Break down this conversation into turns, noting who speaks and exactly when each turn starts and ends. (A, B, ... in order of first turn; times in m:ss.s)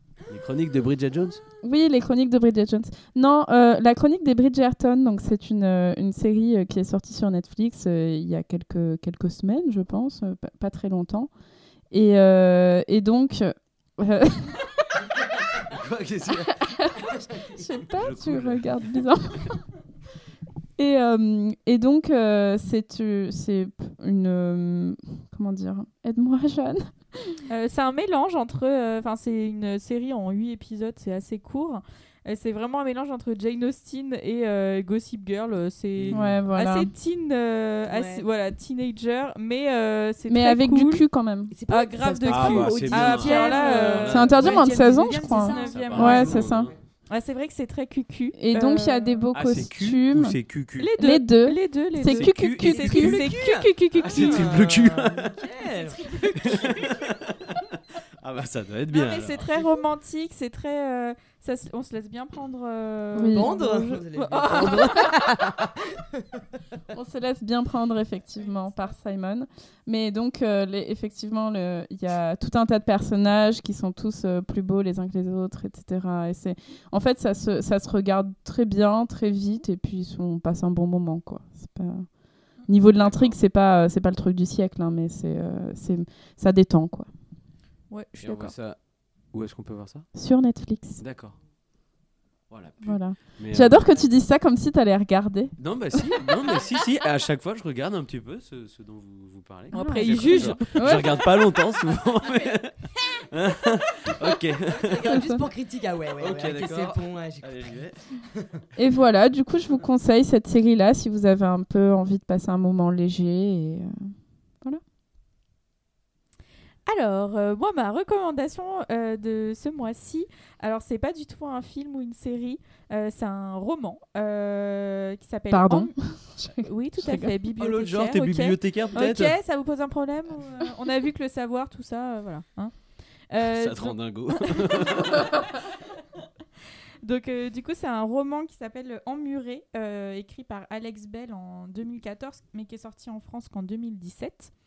0:00.3-0:01.4 A
0:01.6-0:11.3 B
0:11.9-0:14.7 B
0:15.6-0:16.8 A
0:16.6-0:19.6 B
0:17.4-0:19.0 A
0:20.8-0:27.4 B
0:27.5-0:41.0 C
0:36.0-0:36.3 A
0:36.1-0:36.9 B
0:37.9-0:38.2 D
0:40.3-0:41.5 B
0:41.5-0:46.8 D
0:41.7-0:46.4 C
0:42.3-0:44.4 A
0:44.1-0:46.7 B
0:45.6-0:46.8 A
0:47.1-0:49.2 C
0:48.4-0:50.4 B
0:49.3-0:50.9 A
0:50.8-0:54.6 C
0:51.0-0:53.2 B
0:52.1-0:52.9 A
0:52.6-0:57.0 D
0:54.0-0:55.3 A
0:56.4-0:57.6 A
0:58.2-0:59.5 A
0:58.9-1:05.3 C
1:03.2-1:03.5 B
1:03.3-1:06.4 D
1:06.9-1:27.1 B
1:08.4-1:08.9 C
1:22.9-1:23.4 A
1:27.9-1:28.5 C
1:28.2-1:28.8 A
1:29.3-1:30.1 A
1:30.1-1:31.0 B
1:31.0-1:31.4 A
1:32.5-1:34.1 A
1:32.8-1:36.1 B
1:35.6-1:45.1 A
1:39.7-1:41.3 C
1:39.7-1:41.1 B
1:44.7-1:48.5 D
1:45.1-1:45.4 B
1:46.2-1:48.0 A
1:48.8-1:54.8 B
1:56.9-2:12.7 C
2:05.5-2:07.3 B
2:07.6-2:09.3 A
2:13.3-2:15.8 C
2:13.5-2:15.4 A
2:17.0-2:24.5 C